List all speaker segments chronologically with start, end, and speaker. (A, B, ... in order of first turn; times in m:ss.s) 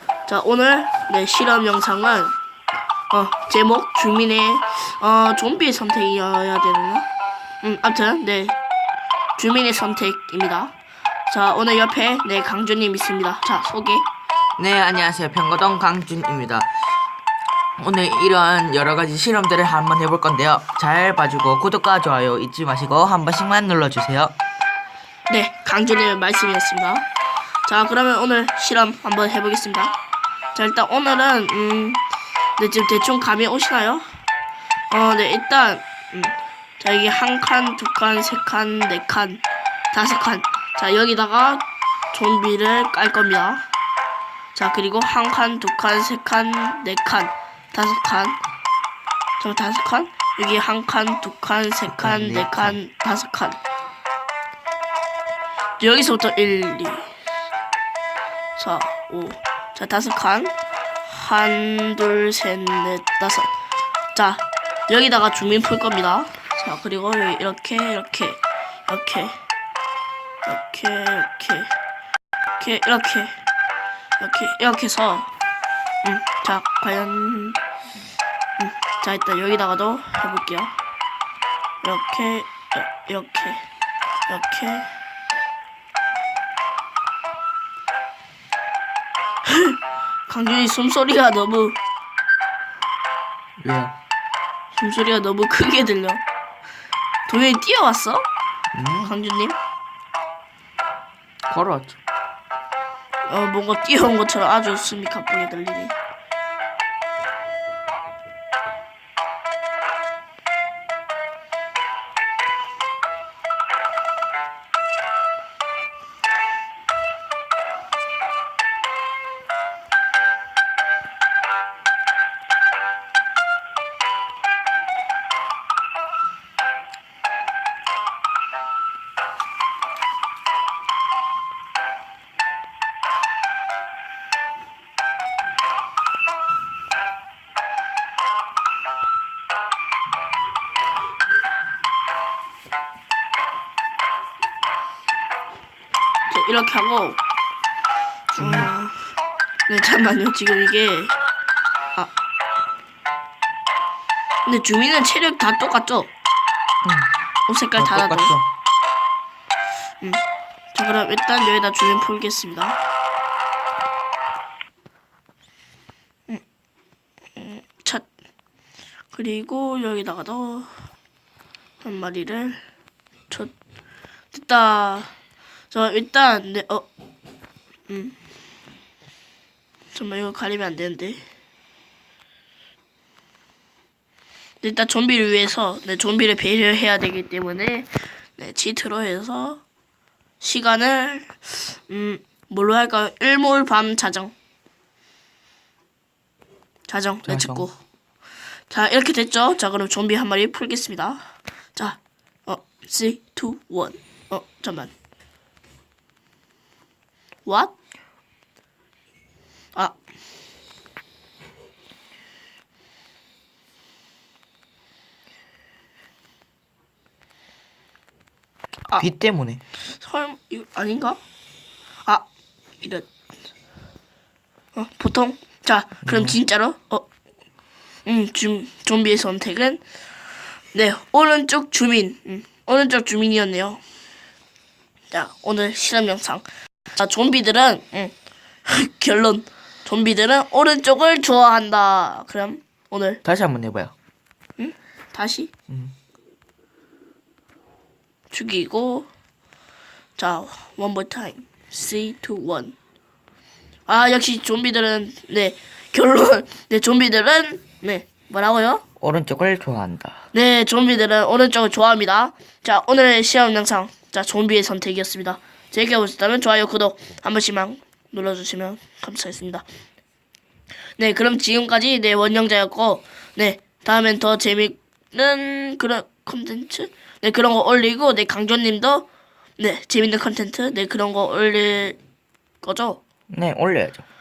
0:00.3-0:02.4 A
0:03.1-0:07.1 A
0:07.6-0:08.6 A
0:09.4-0:10.7 A
0:11.3-0:14.1 A
0:14.6-0:16.7 B
0:17.8-0:24.3 B
0:25.3-0:27.0 A
0:27.6-0:30.0 A
0:30.6-0:32.0 A
0:32.6-0:34.1 A
0:34.9-0:43.6 A
0:44.6-0:48.4 A
0:49.4-0:53.6 A
0:52.0-0:52.8 B
0:55.8-0:57.1 A
0:58.6-1:00.5 A
1:01.0-1:03.5 A
1:04.1-1:09.4 A
1:10.4-1:11.7 A
1:12.6-1:13.4 A
1:14.2-1:15.3 A
1:16.0-1:17.6 A
1:18.6-1:20.8 A
1:21.8-1:23.6 A
1:24.3-1:24.9 A
1:29.5-1:31.8 A
1:33.6-1:34.0 B
1:34.8-1:36.2 A
1:37.3-1:38.3 A
1:38.7-1:39.2 B
1:39.0-1:39.6 A
1:41.5-1:42.0 B
1:43.3-1:46.0 A
2:26.3-2:27.2 A
2:28.3-2:29.0 A
2:28.4-2:28.7 B
2:29.7-2:31.1 A
2:34.4-2:36.1 A
2:36.8-2:37.1 B
2:37.5-2:38.3 A
2:37.8-2:38.5 B
2:40.7-2:42.8 A
2:47.4-2:48.1 A
2:49.1-2:50.7 A
2:51.8-2:52.6 A
2:54.3-2:55.1 A
2:55.7-2:56.9 A
2:57.9-2:58.2 A
2:59.9-3:01.2 A
3:04.6-3:09.6 A
3:10.4-3:14.3 A
3:16.9-3:17.8 A
3:17.3-3:17.7 B
3:18.7-3:24.9 A
3:27.4-3:27.7 A
3:39.0-3:39.6 B
3:39.9-3:41.2 A
3:42.8-3:43.1 A
3:44.7-3:47.1 A
3:46.0-3:46.4 B
3:48.1-3:49.8 A
3:50.7-3:53.8 A
3:55.1-3:58.1 A
3:58.7-4:03.2 A
4:03.2-4:03.9 B
4:04.6-4:05.5 A
4:08.3-4:09.1 A
4:10.2-4:12.8 A
4:13.9-4:18.8 A
4:19.0-4:20.2 B
4:20.3-4:29.6 A
4:31.0-4:39.1 A
4:39.6-4:42.0 A
4:42.6-4:43.0 A
4:43.3-4:44.0 B